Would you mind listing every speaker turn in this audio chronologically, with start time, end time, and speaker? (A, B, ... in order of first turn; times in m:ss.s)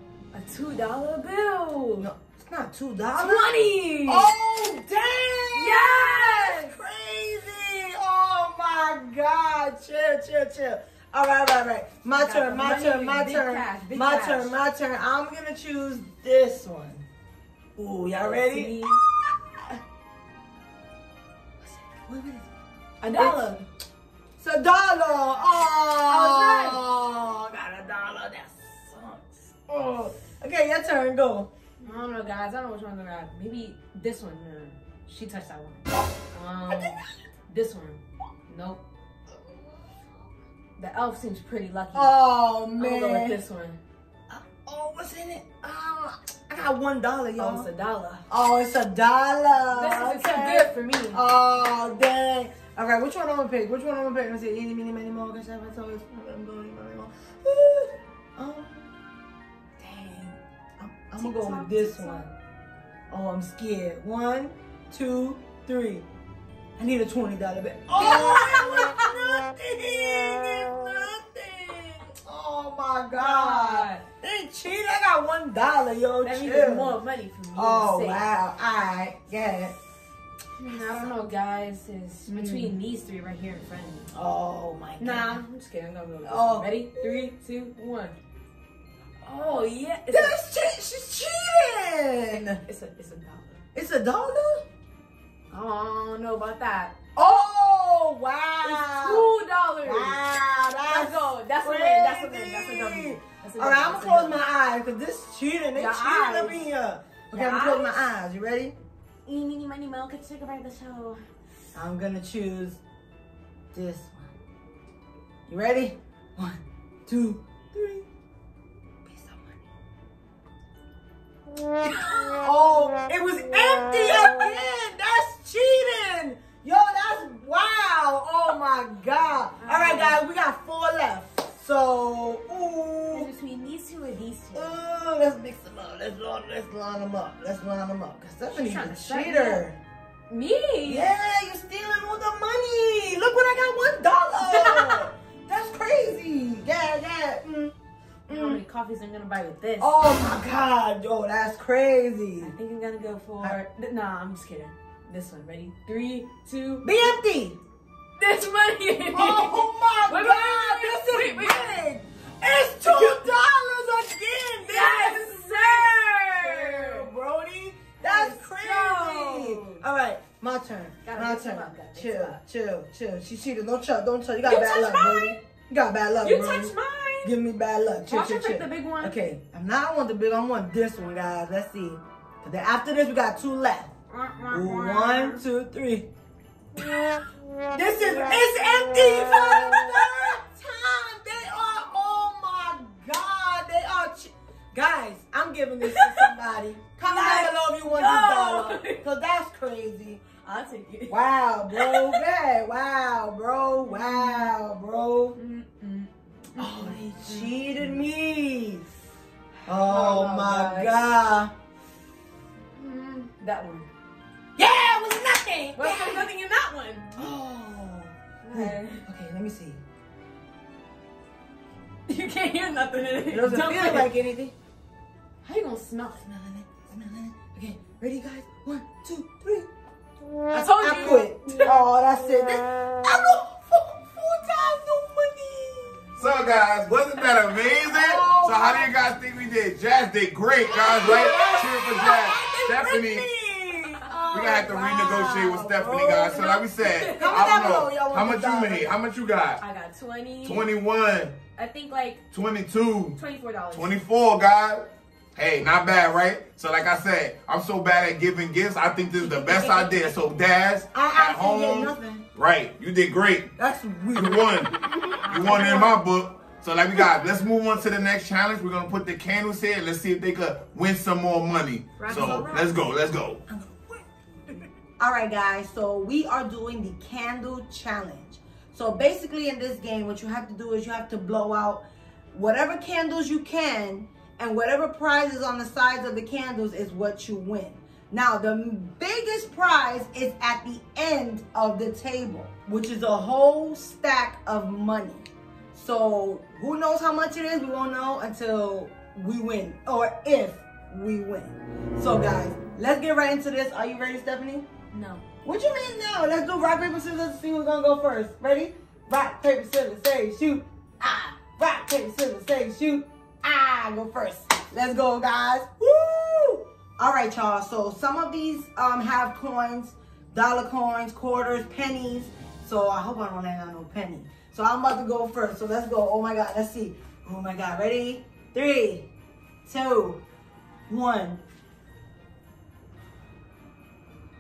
0:00.3-0:02.1 A
0:02.0-0:03.4 B
0:03.2-0:04.3 A
0:04.1-0:17.1 B
0:05.5-0:06.8 A
0:12.2-0:14.5 A
0:17.8-0:18.8 B
0:18.2-0:19.0 A
0:21.6-0:22.5 B
0:23.0-0:23.7 A
0:23.1-0:23.6 B
0:24.4-0:31.5 B
0:26.1-0:26.8 A
0:31.8-0:37.0 A
0:37.5-0:38.8 A
0:40.8-0:42.1 A
0:41.9-0:43.4 B
0:42.8-0:43.8 A
0:44.3-0:47.7 B
0:47.4-0:48.2 A
0:48.3-0:58.9 B
0:49.7-0:51.2 A
0:59.8-1:02.3 B
1:01.2-1:02.3 A
1:03.1-1:06.1 B
1:06.8-1:17.0 B
1:07.9-1:09.3 A
1:13.2-1:14.0 A
1:16.2-1:18.2 A
1:17.6-1:19.8 B
1:20.6-1:24.1 A
1:20.7-1:21.1 B
1:22.3-1:22.7 B
1:24.1-1:25.4 B
1:25.0-1:28.2 A
1:26.2-1:27.3 B
1:29.2-1:30.4 A
1:30.1-1:32.6 B
1:32.7-1:33.6 A
1:33.7-1:34.7 B
1:35.5-1:37.0 A
1:37.2-1:48.8 B
1:38.6-1:40.2 A
1:40.9-1:44.4 A
1:45.8-1:46.7 A
1:47.3-1:48.1 A
1:49.3-1:51.2 A
1:51.7-1:52.8 B
1:53.7-1:54.3 B
1:55.5-1:58.0 B
1:59.0-1:59.6 B
2:01.8-2:13.3 B
2:09.6-2:10.2 A
2:13.1-2:14.8 A
2:14.5-2:19.8 B
2:18.5-2:19.7 A
2:20.3-2:21.1 A
2:20.9-2:27.7 B
2:24.4-2:25.1 A
2:28.3-2:28.6 B
2:28.3-2:30.0 A
2:29.8-2:32.5 B
2:32.4-2:37.2 A
2:36.8-2:37.6 B
2:38.2-2:41.8 A
2:39.1-3:03.9 B
2:42.8-2:43.3 A
2:44.7-2:47.0 A
2:48.0-2:49.8 A
2:51.0-2:52.4 A
2:54.4-2:55.4 A
2:56.2-2:57.3 A
2:58.1-2:59.2 A
3:04.1-3:05.4 A
3:04.5-3:06.1 B
3:07.7-3:20.2 B
3:08.8-3:09.9 A
3:15.8-3:16.3 A
3:17.0-3:19.0 A
3:20.4-3:21.2 A
3:21.1-3:25.4 B
3:21.7-3:22.2 A
3:23.9-3:24.5 A
3:25.4-3:28.0 A
3:26.6-3:28.9 B
3:29.7-3:31.1 A
3:29.7-3:31.5 B
3:32.8-3:33.9 A
3:34.6-3:36.3 B
3:35.8-3:37.2 A
3:37.2-3:39.8 B
3:38.4-3:39.0 A
3:42.1-3:44.1 A
3:43.3-3:44.6 B
3:45.4-3:46.2 A
3:46.2-3:49.7 B
3:50.5-3:56.1 B
3:50.6-3:51.7 A
3:56.2-4:03.3 C
3:57.6-3:58.9 B
4:00.7-4:06.6 B
4:01.0-4:02.3 A
4:04.3-4:09.6 C
4:06.4-4:07.6 A
4:07.2-4:08.9 B
4:09.6-4:10.7 A
4:10.4-4:11.4 C
4:11.6-4:12.2 A
4:12.3-4:13.2 C
4:13.2-4:14.0 A
4:13.7-4:23.5 C
4:19.2-4:20.2 A
4:20.9-4:22.2 B
4:23.6-4:26.0 B
4:24.2-4:24.7 C
4:25.2-4:26.0 A
4:25.2-4:33.4 C
4:32.0-4:32.8 A
4:33.5-5:04.6 B
5:04.9-5:05.2 A
5:05.4-5:29.1 B
5:29.7-5:30.2 B
5:30.9-5:31.4 B